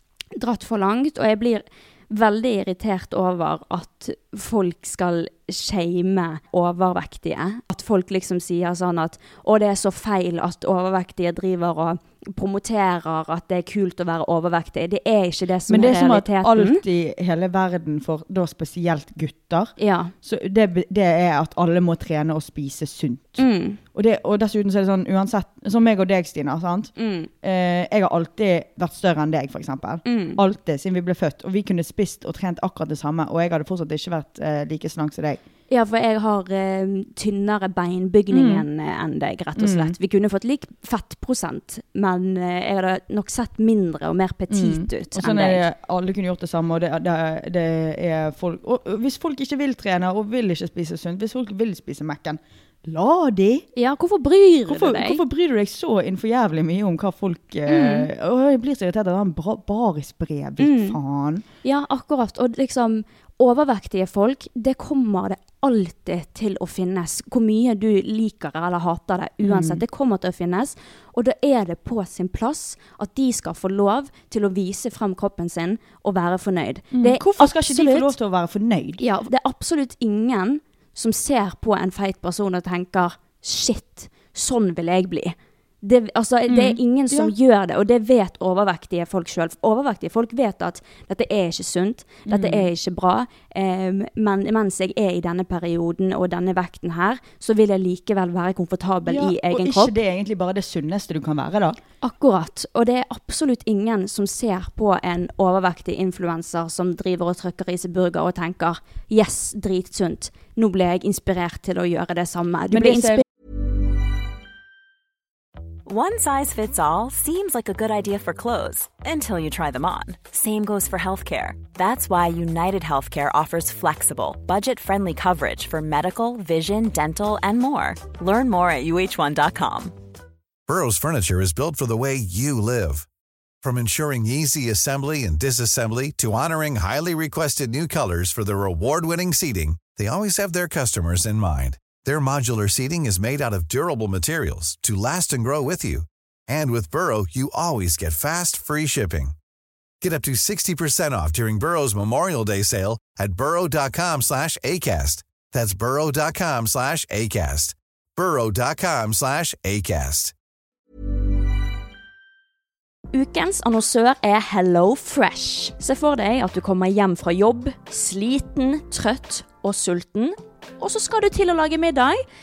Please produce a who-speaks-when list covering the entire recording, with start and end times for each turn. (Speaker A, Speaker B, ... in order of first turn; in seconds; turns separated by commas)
Speaker A: 0.3-16.8, Speaker B: 15.7-35.4, Speaker A: 19.8-20.1, Speaker A: 23.4-23.8, Speaker A: 27.0-27.3, Speaker A: 30.1-30.4, Speaker A: 35.7-45.6, Speaker B: 38.3-38.6, Speaker B: 39.6-39.9, Speaker B: 44.5-53.7, Speaker A: 53.8-55.2, Speaker B: 54.7-61.4, Speaker A: 57.7-58.1, Speaker A: 60.6-61.0, Speaker A: 61.6-78.1, Speaker B: 69.4-69.8, Speaker B: 76.9-79.0, Speaker A: 79.0-99.9, Speaker B: 86.5-87.3, Speaker B: 92.2-92.7, Speaker B: 99.1-101.8, Speaker A: 102.0-113.2, Speaker B: 112.7-113.2, Speaker C: 115.8-129.9, Speaker D: 130.7-133.1, Speaker D: 133.6-149.3, Speaker D: 150.0-160.3, Speaker A: 163.1-172.2